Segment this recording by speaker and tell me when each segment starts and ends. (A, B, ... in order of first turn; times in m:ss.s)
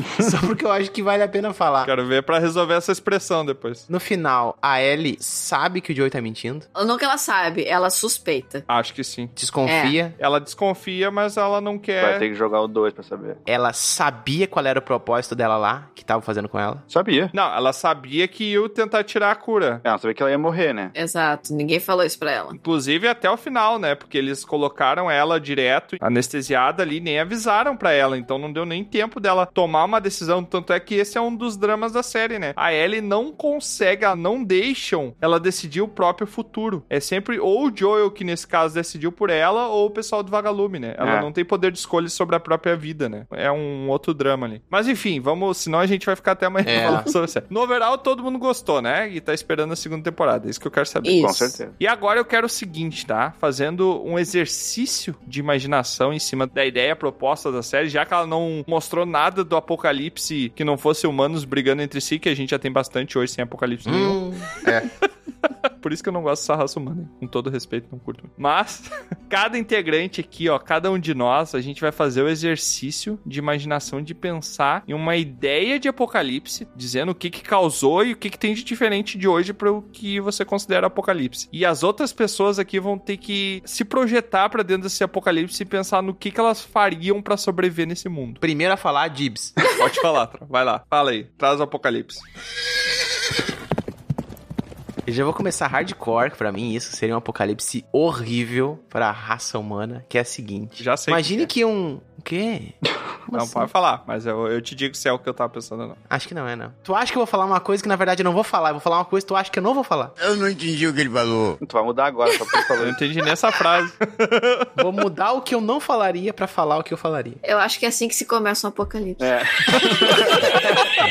0:00.2-0:01.9 A
0:01.8-0:03.8 B
0:03.9-0:06.6 A
0:06.7-0:08.6 C
0:08.7-0:09.3 B
0:09.4-0:10.2 A
0:09.6-0:10.0 C
0:10.2-0:12.3 B
0:12.0-0:13.4 D
0:13.5-0:16.8 A
0:16.9-0:17.3 D
0:17.3-0:19.8 B
0:19.8-0:20.9 D
0:20.9-0:22.6 C
0:22.5-1:04.2 B
0:41.0-0:41.3 D
0:46.6-0:47.1 A
0:51.0-0:51.6 C
0:51.2-0:51.7 D
1:03.8-1:04.9 A
1:05.8-1:28.4 B
1:28.4-1:29.5 A
1:29.6-1:32.2 B
1:35.0-1:42.7 A
1:40.8-1:41.5 B
1:43.3-1:43.7 A
1:43.3-1:46.0 B
1:46.1-1:50.1 A
1:51.6-1:53.0 D
1:52.8-1:54.7 B
1:54.8-1:57.4 A
1:57.4-1:59.3 C
1:59.2-2:00.6 D